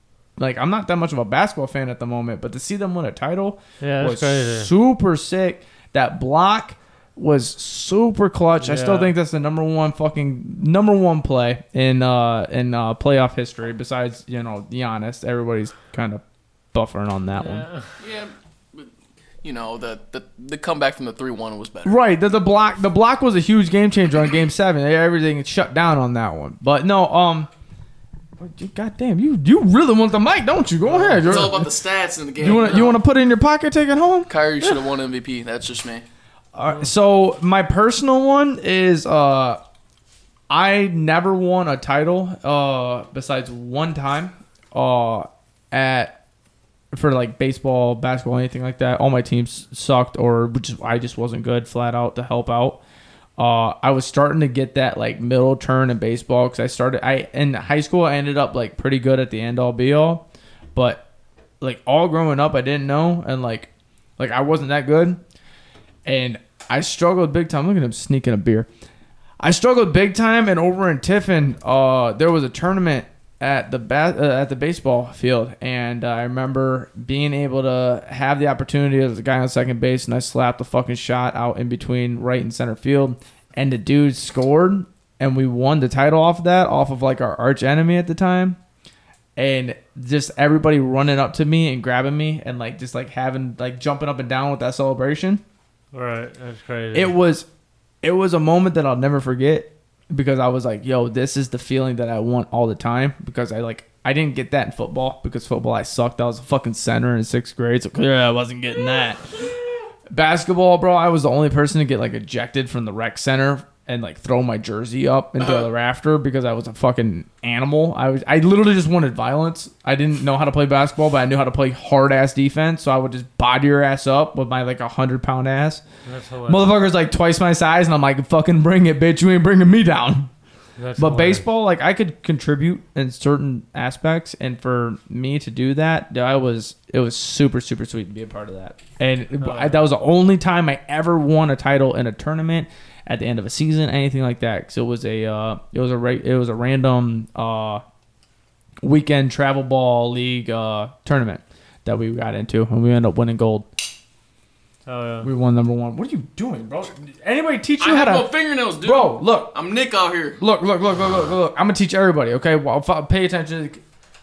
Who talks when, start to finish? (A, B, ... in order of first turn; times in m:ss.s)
0:00.4-0:17.7 A
0:03.8-0:04.7 B
0:08.6-0:09.1 B
0:17.4-0:17.9 B
0:18.0-0:18.9 C
0:19.4-0:22.0 C
0:21.8-0:27.5 A
0:28.4-0:31.7 A
0:30.8-0:31.4 B
0:31.2-0:33.0 C
0:32.4-0:34.3 A
0:34.3-0:36.0 C
0:36.6-0:39.6 A
0:40.5-0:46.2 A
0:46.9-0:52.8 A
0:53.4-1:01.0 A
1:01.6-1:05.2 A
1:06.0-1:08.7 A
1:09.4-1:28.6 A
1:29.4-1:35.4 A
1:35.9-1:37.1 B
1:36.9-1:37.5 A
1:38.0-1:49.3 A
1:50.1-2:05.8 A
2:06.0-2:06.8 B
2:06.5-2:10.3 A
2:10.8-2:11.5 B
2:11.0-2:27.8 A
2:19.4-2:19.9 B
2:28.8-2:33.7 A
2:34.9-2:35.3 B
2:35.2-2:39.5 A
2:37.8-2:40.4 C
2:40.4-2:43.8 A